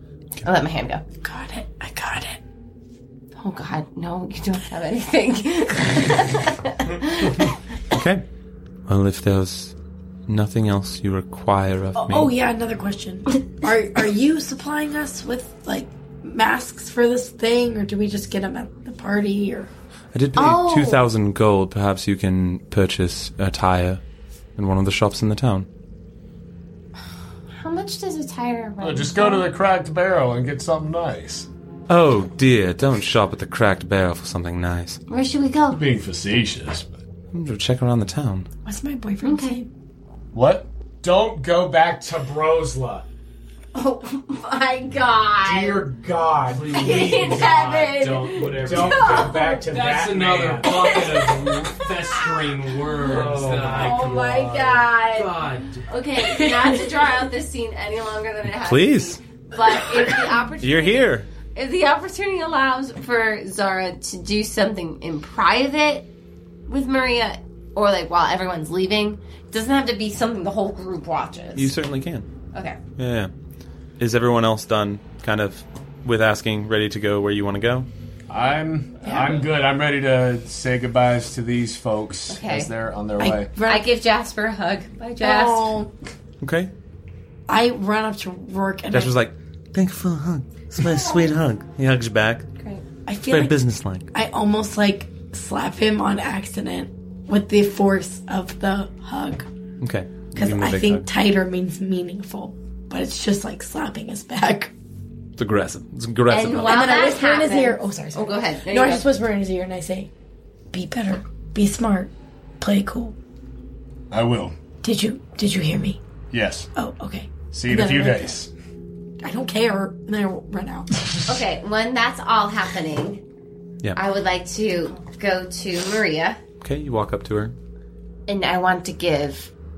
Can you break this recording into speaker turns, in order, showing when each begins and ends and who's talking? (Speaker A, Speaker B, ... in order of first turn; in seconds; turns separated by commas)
Speaker A: 0.4-1.0, Speaker B: 1.2-2.4, Speaker A: 3.4-7.5, Speaker C: 7.9-8.2, Speaker C: 8.9-9.7, Speaker C: 10.3-12.3, Speaker B: 11.9-19.7, Speaker C: 20.1-24.0, Speaker A: 20.4-21.0, Speaker C: 24.6-25.7, Speaker A: 27.5-29.5, Speaker D: 28.8-31.5, Speaker C: 31.9-35.0, Speaker A: 35.1-35.8, Speaker D: 35.7-37.0, Speaker C: 37.3-38.5, Speaker B: 38.6-39.7, Speaker A: 39.2-39.6, Speaker D: 40.3-43.0, Speaker A: 43.7-45.9, Speaker D: 45.4-51.0, Speaker E: 46.6-47.4, Speaker A: 46.7-49.6, Speaker E: 48.1-55.9, Speaker A: 50.6-52.3, Speaker D: 53.0-54.8, Speaker A: 53.2-66.1, Speaker B: 56.2-56.9, Speaker C: 58.6-59.2, Speaker C: 60.6-61.3, Speaker A: 66.7-71.7, Speaker C: 71.5-72.3, Speaker A: 72.5-72.8, Speaker C: 73.0-73.3, Speaker C: 74.0-77.9, Speaker D: 78.3-83.5, Speaker B: 79.0-79.5, Speaker A: 82.3-82.7, Speaker B: 83.2-83.9, Speaker A: 83.6-85.7, Speaker B: 85.2-85.9, Speaker C: 86.4-86.7, Speaker B: 87.5-89.1, Speaker C: 88.9-92.5, Speaker A: 92.6-92.8, Speaker B: 93.0-93.6, Speaker C: 93.2-94.1, Speaker B: 94.1-99.5, Speaker C: 99.8-101.1, Speaker B: 100.3-104.7, Speaker C: 105.4-106.9, Speaker A: 106.3-109.1, Speaker B: 106.5-110.1, Speaker B: 110.7-113.2, Speaker D: 114.1-114.5, Speaker B: 114.8-116.0, Speaker D: 116.3-116.7, Speaker B: 116.7-118.4, Speaker D: 117.5-118.5, Speaker B: 119.2-121.1, Speaker A: 121.2-123.2, Speaker A: 123.9-126.4, Speaker C: 126.6-127.5, Speaker A: 128.3-129.5